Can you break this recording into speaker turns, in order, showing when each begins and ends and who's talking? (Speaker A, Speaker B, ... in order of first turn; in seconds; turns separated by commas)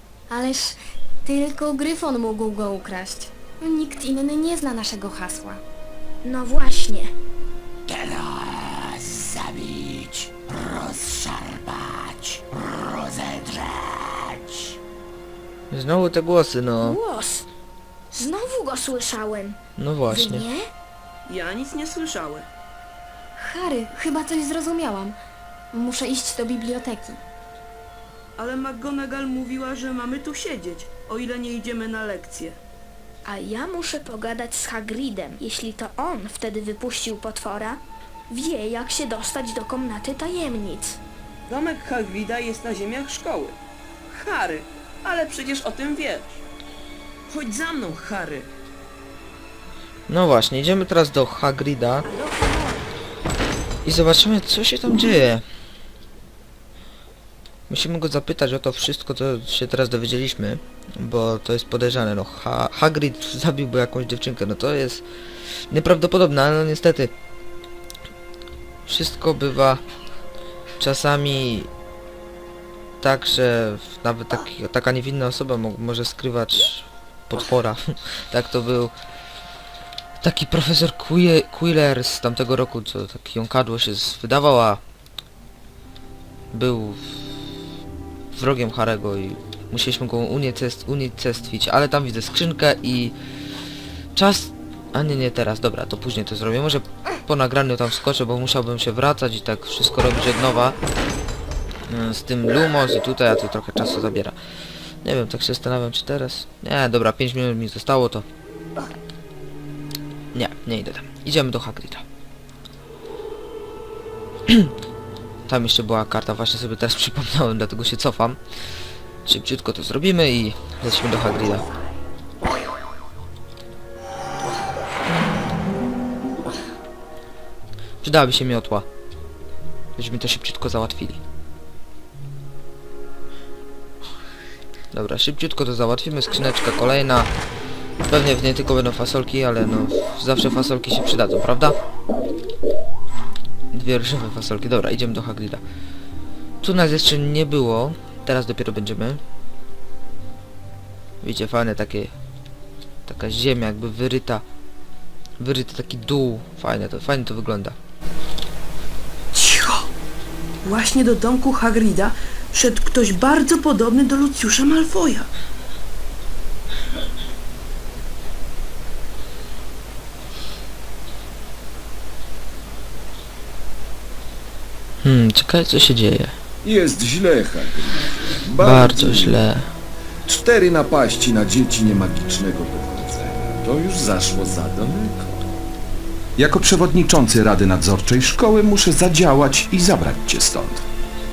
Speaker A: 0.3-5.6, Speaker B: 6.2-7.1, Speaker C: 7.9-14.1, Speaker D: 15.7-17.0, Speaker B: 16.8-17.5, Speaker B: 18.1-19.6, Speaker D: 19.8-20.5, Speaker B: 20.1-20.7, Speaker E: 21.3-22.5, Speaker A: 23.4-25.2, Speaker A: 25.7-27.2, Speaker E: 28.4-32.6, Speaker B: 33.3-41.0, Speaker E: 41.5-43.6, Speaker E: 44.1-46.4, Speaker E: 47.3-48.5, Speaker D: 50.1-52.1, Speaker E: 52.0-52.9, Speaker D: 53.8-55.5, Speaker D: 57.7-65.0, Speaker D: 65.7-67.1, Speaker D: 68.9-69.8, Speaker D: 70.8-71.7, Speaker D: 73.0-78.9, Speaker D: 80.2-84.8, Speaker D: 86.5-87.2, Speaker D: 88.3-93.1, Speaker D: 94.2-100.8, Speaker D: 101.9-104.4, Speaker D: 105.0-108.3, Speaker D: 110.3-112.0, Speaker D: 115.5-118.4, Speaker D: 119.2-121.7, Speaker D: 128.0-128.9, Speaker D: 130.0-131.2, Speaker D: 134.9-137.3, Speaker D: 138.1-141.8, Speaker D: 143.7-145.6, Speaker D: 146.6-149.2, Speaker D: 151.2-152.1, Speaker D: 153.1-154.4, Speaker D: 155.4-157.8, Speaker E: 159.3-159.9, Speaker E: 160.6-165.3, Speaker D: 175.0-176.3, Speaker F: 176.6-179.4, Speaker D: 178.6-179.7, Speaker F: 180.3-185.4, Speaker F: 186.4-190.8